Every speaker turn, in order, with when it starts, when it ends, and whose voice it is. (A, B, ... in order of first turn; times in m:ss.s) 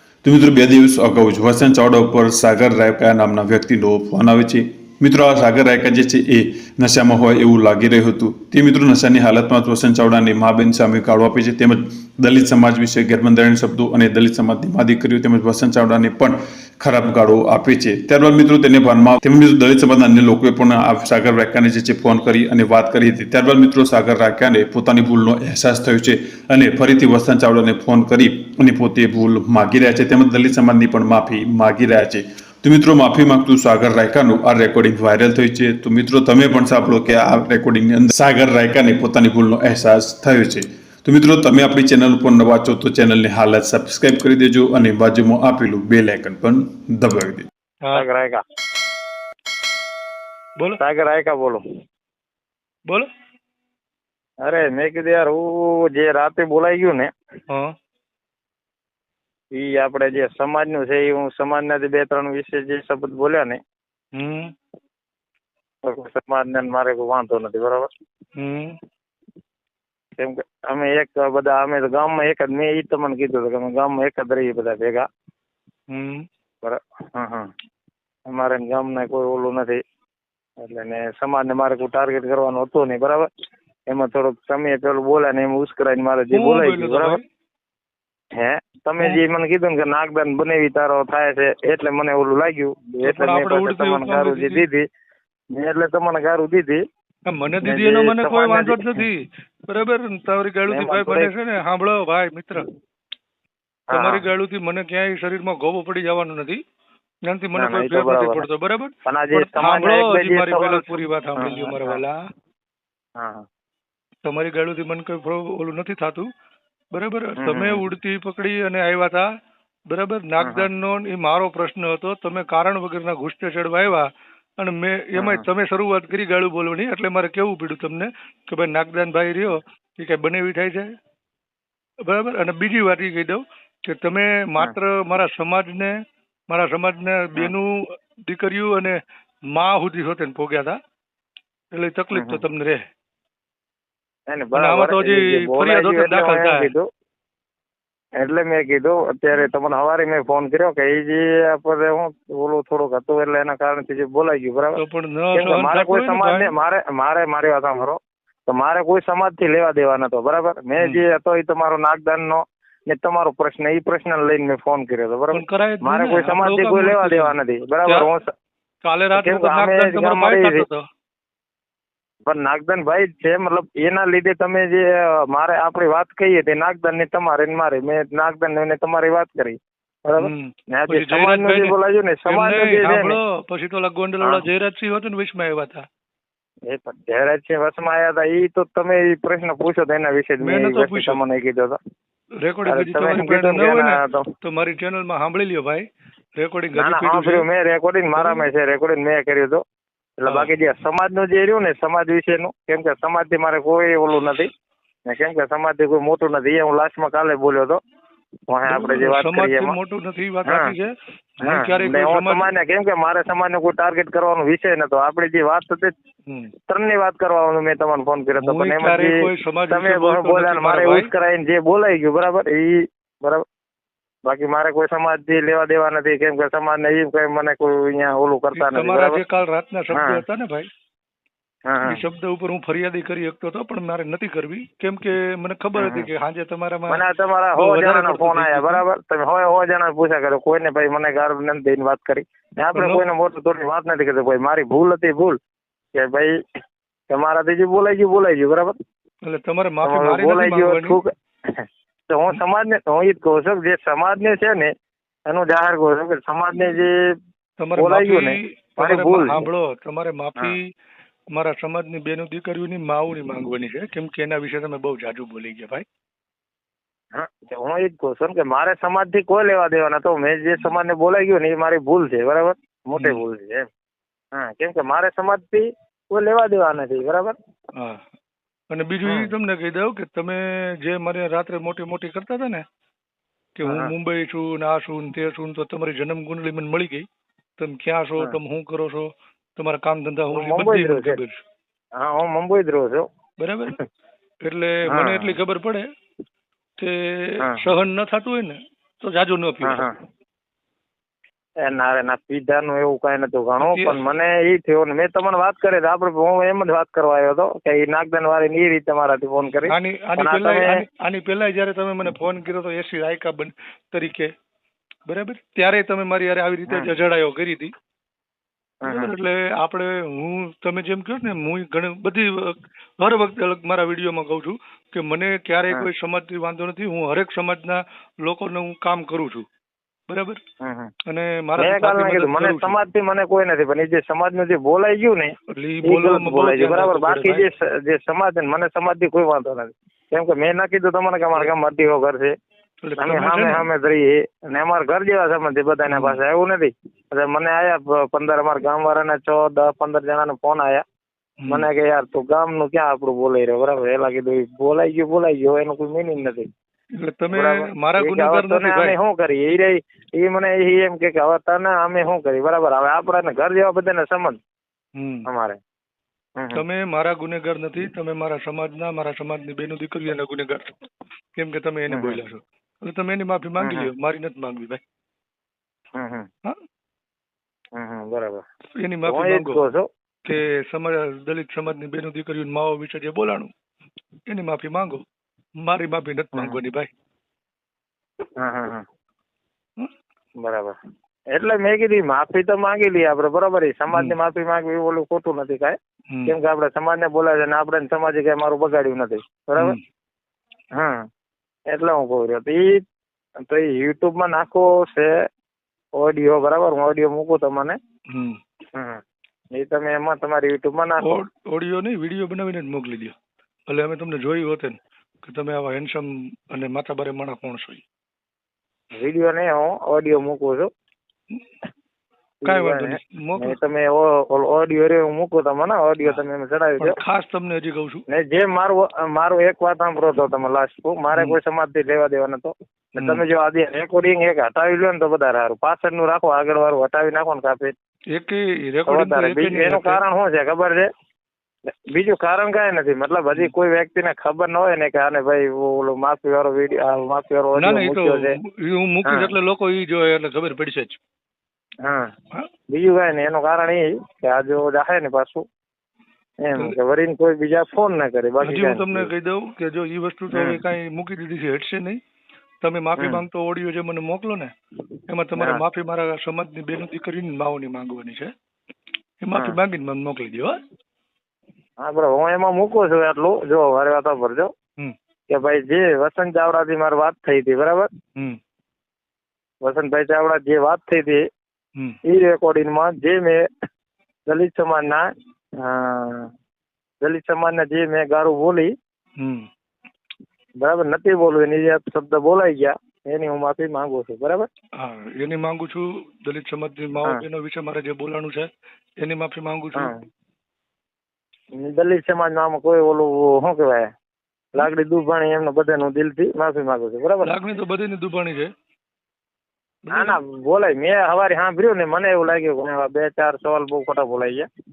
0:00.2-0:47.5 A
0:47.9-0:48.4 B
0:50.8-0:51.6 B
0:54.4-0:57.1 B
0:59.5-1:03.6 B
1:04.1-1:04.5 C
1:05.8-1:07.9 B
1:08.4-1:08.8 C
1:10.2-1:15.0 B
1:15.9-1:16.2 C
1:16.6-1:17.5 B
1:18.3-1:19.8 B
1:20.6-1:23.3 B
1:23.9-1:27.2 B
1:26.3-1:27.2 C
1:28.4-1:34.8 B
1:33.0-1:34.6 C
1:35.5-1:36.8 B
1:37.3-1:42.7 C
1:37.6-1:39.1 B
1:40.7-1:41.3 B
1:43.9-1:44.2 B
1:43.9-1:46.6 C
1:47.3-1:52.2 C
1:47.6-1:48.4 B
1:49.0-1:52.0 B
1:53.2-1:53.4 B
1:54.2-1:56.3 C
1:56.9-1:59.2 C
1:57.4-1:57.8 B
1:59.9-2:04.0 C
2:00.4-2:00.7 B
2:04.6-2:10.9 C
2:05.2-2:05.4 B
2:12.1-2:15.9 C
2:16.5-2:17.7 C
2:18.3-2:19.0 C
2:19.5-2:20.8 C
2:21.7-2:22.8 C
2:22.1-2:22.4 B
2:24.3-2:26.9 B
2:24.5-2:26.7 C
2:28.2-2:34.8 B
2:34.8-2:36.5 C
2:35.3-2:48.3 B
2:45.3-2:47.3 C
2:48.8-2:50.8 C
2:49.1-2:50.6 B
2:52.3-3:03.2 B
3:00.2-3:01.8 C
3:02.3-3:05.8 C
3:06.7-3:11.8 B
3:10.4-3:11.2 C
3:12.4-3:15.8 C
3:12.6-3:14.3 B
3:16.4-3:17.4 C
3:16.7-3:19.6 B
3:18.2-3:18.4 C
3:20.2-3:24.5 B
3:25.1-3:27.8 B
3:28.5-3:29.8 B
3:28.7-3:32.5 C
3:30.4-3:30.7 B
3:31.4-3:35.9 B
3:36.3-3:36.5 C
3:36.7-3:43.4 B
3:38.4-3:41.1 C
3:44.3-3:49.2 B
3:48.5-3:50.7 C
3:49.9-3:50.2 B
3:51.7-3:52.0 B
3:51.8-3:57.0 C
3:55.8-3:56.1 B
3:56.9-4:05.4 B
3:57.6-3:58.8 C
4:02.7-4:03.0 C
4:06.0-4:06.4 B
4:07.1-4:08.7 B
4:09.2-4:11.0 C
4:09.8-4:14.7 B
4:15.3-4:16.9 B
4:17.6-4:20.7 C
4:17.8-4:19.4 B
4:21.3-4:25.8 C
4:27.1-4:33.6 B
4:34.3-4:37.4 B
4:37.8-4:38.1 C
4:38.7-4:42.6 C
4:39.0-4:39.3 B
4:43.6-4:47.0 C
4:43.6-4:43.9 B
4:47.6-4:51.4 C
4:50.3-4:51.2 B
4:52.0-4:53.1 B
4:53.4-4:53.8 C
4:54.4-4:55.8 C
4:54.9-4:55.3 B
4:56.8-4:59.9 C
4:59.6-4:59.9 B
5:01.6-5:10.8 B
5:03.6-5:04.0 C
5:09.7-5:14.3 C
5:15.1-5:17.7 C
5:16.7-5:16.9 B
5:18.8-5:19.1 B
5:18.8-5:29.4 C
5:30.1-5:30.4 C
5:30.6-5:30.9 B
5:31.1-5:32.8 C
5:31.6-5:42.3 B
5:35.5-5:37.4 C
5:42.8-5:43.7 C
5:43.0-5:50.8 B
5:45.9-5:46.2 C
5:51.4-5:51.7 C
5:51.5-5:56.5 B
5:57.0-5:59.0 C
5:57.3-6:04.4 B
6:05.0-6:05.3 C
6:05.3-6:05.6 B
6:06.4-6:06.6 B
6:06.5-6:10.7 C
6:11.4-6:14.8 C
6:11.9-6:12.2 B
6:13.6-6:13.9 B
6:16.0-6:16.3 B
6:17.8-6:18.4 B
6:18.8-6:19.6 C
6:19.0-6:19.9 B
6:20.2-6:23.5 C
6:24.3-6:25.0 C
6:25.6-6:26.9 C
6:28.4-6:28.8 B
6:30.4-6:30.8 B
6:31.3-6:39.8 B
6:36.1-6:36.3 C
6:40.8-6:41.0 B
6:41.7-6:42.8 B
6:43.4-6:45.1 B
6:46.0-6:47.8 B
6:48.1-6:48.4 C
6:48.7-6:49.0 B
6:49.5-6:51.2 B
6:51.0-6:53.1 C
6:53.7-6:57.8 C
6:59.0-7:00.7 B
7:02.4-7:07.0 B
7:02.4-7:03.6 C
7:06.8-7:08.0 C
7:08.1-7:17.7 B
7:13.0-7:13.2 C
7:18.1-7:20.0 C
7:18.9-7:20.9 B
7:21.7-7:28.3 B
7:27.6-7:31.0 C
7:29.0-7:29.3 B
7:32.7-7:35.4 B
7:36.4-7:39.1 B
7:38.4-7:42.0 C
7:40.3-7:40.6 B
7:42.6-7:44.5 C
7:43.0-7:43.2 B
7:45.1-7:48.3 C
7:49.2-7:50.6 C
7:51.8-7:54.5 B
7:55.3-7:57.9 B
7:59.6-8:01.2 B
8:02.0-8:03.4 B
8:04.3-8:05.0 B
8:05.6-8:06.3 B
8:07.0-8:08.7 B
8:09.2-8:09.4 C
8:10.6-8:14.5 B
8:14.8-8:18.5 C
8:19.0-8:19.9 C
8:21.6-8:23.9 B
8:24.5-8:27.4 B
8:27.2-8:28.5 C
8:29.8-8:30.2 C
8:29.9-8:34.5 B